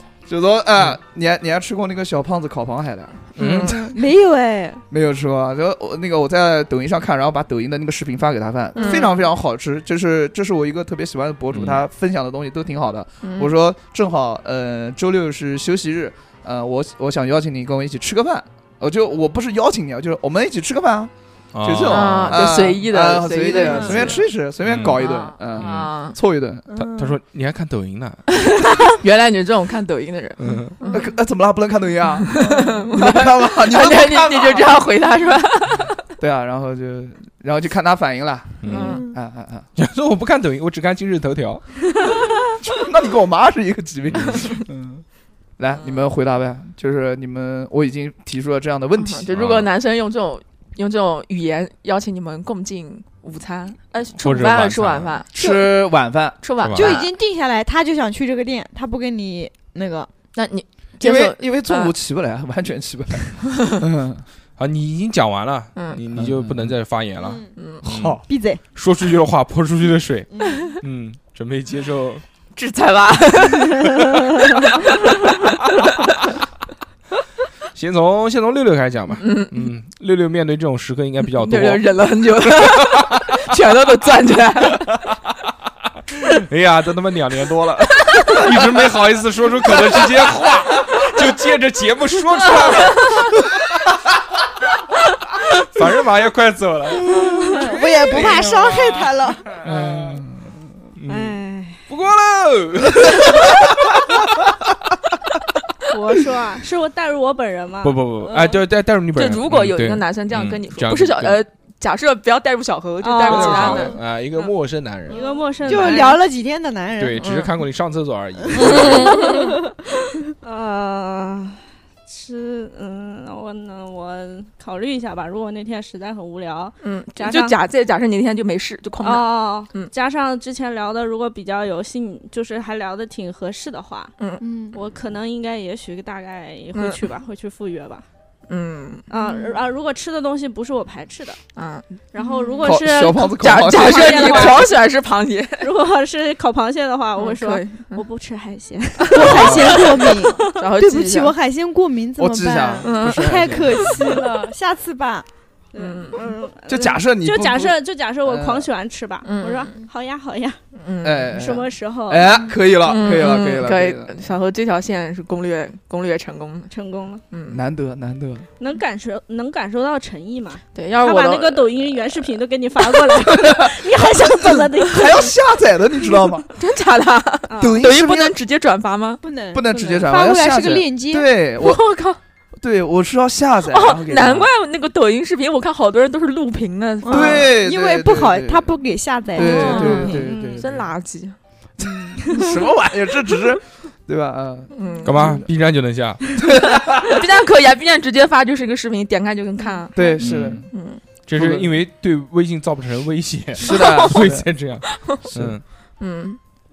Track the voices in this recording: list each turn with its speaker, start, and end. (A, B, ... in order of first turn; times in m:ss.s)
0:00.3-0:03.7 A
0:03.4-0:03.8 B
0:03.4-0:03.9 C
0:03.8-0:04.8 D
0:04.9-0:26.9 A
0:08.7-0:09.1 D
0:08.8-0:09.1 B
0:11.5-0:11.8 C
0:13.2-0:13.5 B
0:21.5-0:22.4 C
0:21.9-0:24.2 B
0:23.5-0:24.0 D
0:24.6-0:25.0 C
0:24.9-0:26.2 B
0:25.5-0:25.9 C
0:26.7-0:27.2 D
0:27.0-0:28.2 C
0:28.9-0:31.0 B
0:30.4-0:30.8 C
0:30.9-0:34.7 A
0:32.2-0:35.9 B
0:36.2-0:39.7 A
0:38.6-0:39.0 C
0:38.6-0:39.0 B
0:39.8-0:41.6 C
0:42.6-0:45.0 A
0:44.1-0:44.5 C
0:45.6-0:49.3 A
0:49.0-0:55.3 B
0:49.3-0:49.7 C
0:54.2-0:55.2 C
0:55.3-0:56.4 A
0:55.4-0:55.7 D
0:56.4-0:57.1 B
0:56.6-0:57.0 C
0:56.7-1:00.1 D
1:00.3-1:01.9 B
1:01.0-1:04.2 A
1:04.6-1:08.2 C
1:05.7-1:06.0 B
1:06.1-1:06.7 A
1:07.2-1:07.5 D
1:07.6-1:07.8 B
1:07.8-1:08.2 A
1:08.2-1:08.6 D
1:08.7-1:12.2 C
1:10.3-1:10.7 D
1:12.6-1:14.2 B
1:14.8-1:15.0 B
1:17.7-1:21.8 C
1:19.2-1:19.7 B
1:21.2-1:24.8 B
1:22.4-1:23.1 C
1:26.3-1:33.4 C
1:32.7-1:33.1 B
1:35.6-1:38.9 C
1:37.2-1:37.7 E
1:37.5-1:39.4 D
1:38.1-1:38.4 A
1:39.6-1:40.3 C
1:39.6-1:40.3 A
1:41.0-1:43.7 C
1:41.1-1:41.8 E
1:45.9-1:48.6 E
1:47.8-1:51.4 C
1:49.1-1:54.0 B
1:53.0-1:54.5 E
1:53.3-1:55.2 C
1:55.0-1:56.2 E
1:55.6-1:57.2 D
1:57.0-1:59.2 C
1:57.2-1:57.5 B
1:58.5-1:59.5 B
1:59.1-1:59.5 E
2:00.4-2:07.6 E
2:06.8-2:09.9 B
2:09.0-2:14.1 E
2:14.4-2:14.8 D
2:14.7-2:18.0 E
2:16.7-2:17.0 B
2:18.5-2:19.1 B
2:19.1-2:21.4 E
2:21.6-2:21.9 B
2:22.1-2:24.7 E
2:22.2-2:22.6 D
2:22.6-2:24.6 A
2:23.4-2:25.7 B
2:25.6-2:30.7 E
2:27.2-2:28.0 B
2:29.0-2:31.3 B
2:29.1-2:35.2 D
2:29.2-2:29.8 A
2:32.2-2:34.2 A
2:32.8-2:33.4 B
2:35.7-2:40.6 E
2:35.7-2:36.2 B
2:36.7-2:38.7 A
2:39.2-2:39.7 B
2:40.7-2:41.3 B
2:41.0-2:44.1 A
2:41.3-2:42.4 E
2:42.8-2:46.7 B
2:46.7-2:47.2 E
2:47.3-2:47.6 B
2:47.5-2:48.4 A
2:48.6-2:55.3 E
2:50.7-2:52.3 B
2:53.6-2:56.5 A
2:56.6-2:59.2 B
2:57.5-2:57.8 E
2:57.6-2:58.4 A
2:59.2-3:01.3 D
2:59.5-3:01.8 A
2:59.7-3:00.0 E
3:01.6-3:02.2 B
3:02.6-3:04.5 A
3:03.7-3:07.5 B
3:07.0-3:10.2 D
3:07.1-3:08.7 A
3:09.3-3:10.9 A
3:09.4-3:11.4 B
3:09.4-3:10.6 E
3:11.8-3:15.4 A
3:11.8-3:12.1 D
3:14.7-3:15.4 B
3:15.0-3:16.2 C
3:16.4-3:17.2 A
3:16.7-3:21.0 B
3:19.9-3:20.7 A
3:20.2-3:20.7 C
3:21.3-3:25.6 C
3:21.3-3:21.8 A
3:23.6-3:24.5 A
3:23.6-3:24.3 B
3:24.9-3:25.2 B
3:25.3-3:25.6 A
3:26.0-3:26.4 B